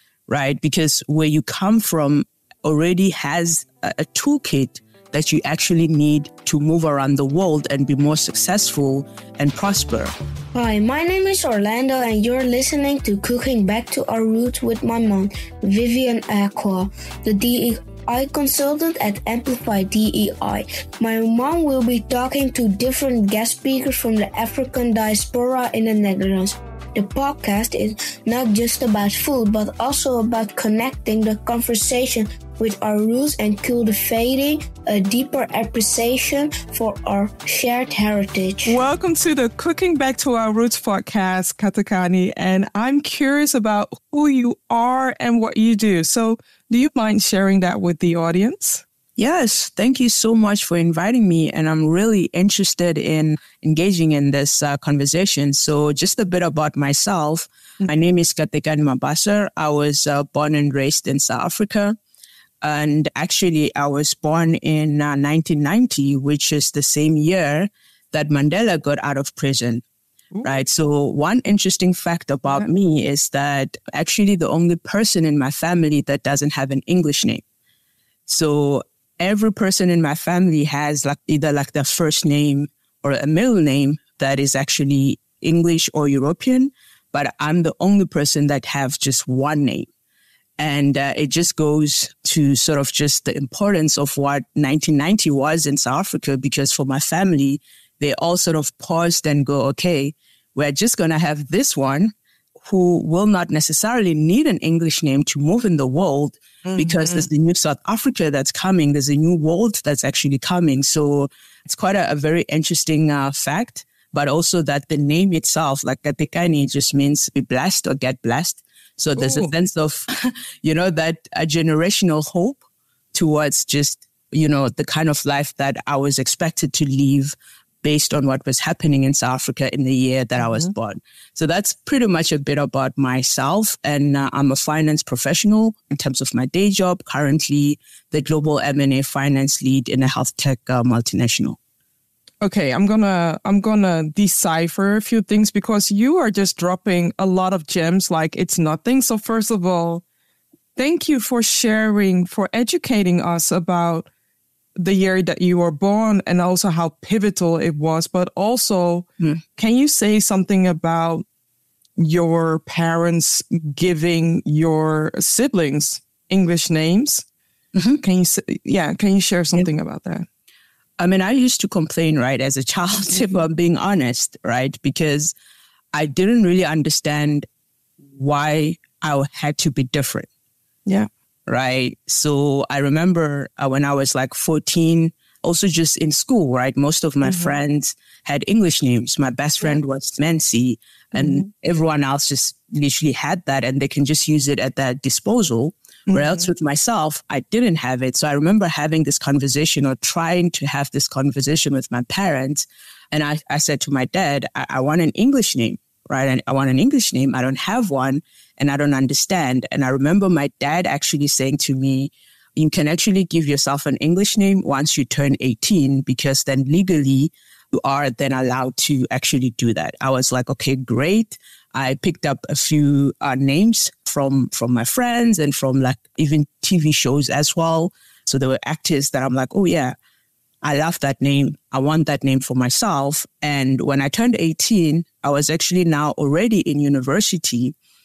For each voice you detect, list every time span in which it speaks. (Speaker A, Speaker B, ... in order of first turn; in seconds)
Speaker A: 0.3-10.1, 49.2-62.0, 62.6-69.8, 70.4-77.4, 78.3-89.9, 90.6-122.6, 123.1-141.6, 167.7-168.0, 171.0-175.3, 175.9-177.5, 178.1-180.3, 181.5-229.9, 230.6-237.7
Speaker B: 10.5-38.8
Speaker C: 38.6-48.8, 106.6-107.3, 119.2-119.5, 130.4-130.7, 142.4-150.0, 150.8-154.1, 154.8-161.2, 162.0-167.2, 168.0-170.2, 187.2-187.5, 191.1-191.5, 196.1-196.5